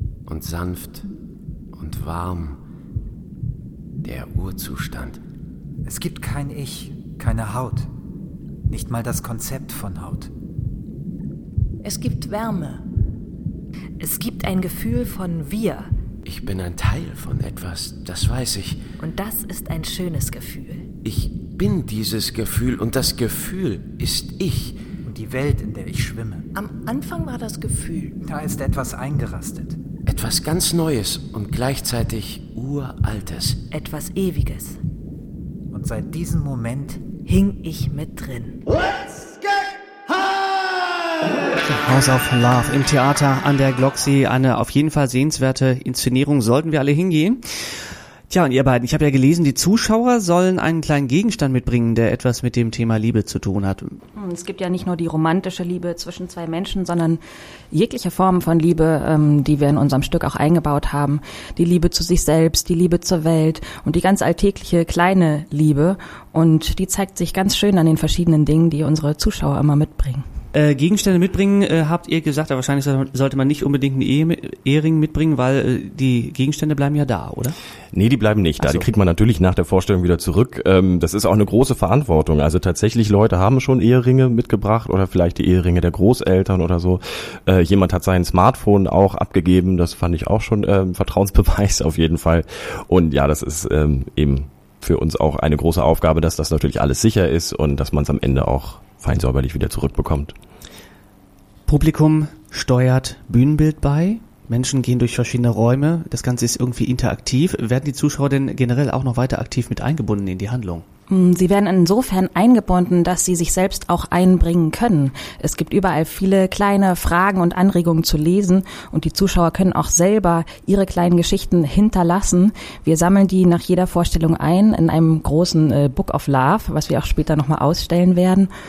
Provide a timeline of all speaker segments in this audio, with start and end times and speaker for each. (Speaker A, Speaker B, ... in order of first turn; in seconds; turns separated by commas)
Speaker A: 0.3-1.1, Speaker A: 1.8-2.6, Speaker A: 4.0-5.2, Speaker B: 5.8-7.9, Speaker B: 8.7-10.3, Speaker C: 11.8-12.8, Speaker C: 14.0-15.9, Speaker A: 16.2-18.9, Speaker C: 19.0-20.9, Speaker A: 21.0-24.8, Speaker B: 25.1-26.5, Speaker C: 26.6-28.2, Speaker B: 28.2-29.8, Speaker A: 30.1-33.6, Speaker C: 33.7-34.8, Speaker B: 35.7-37.1, Speaker C: 37.2-38.6, Speaker D: 41.3-47.4, Speaker D: 48.3-54.0, Speaker E: 54.2-57.2, Speaker E: 57.7-70.2, Speaker D: 70.5-77.6, Speaker F: 77.9-100.3, Speaker D: 78.6-78.9, Speaker D: 101.7-110.8, Speaker E: 111.1-128.5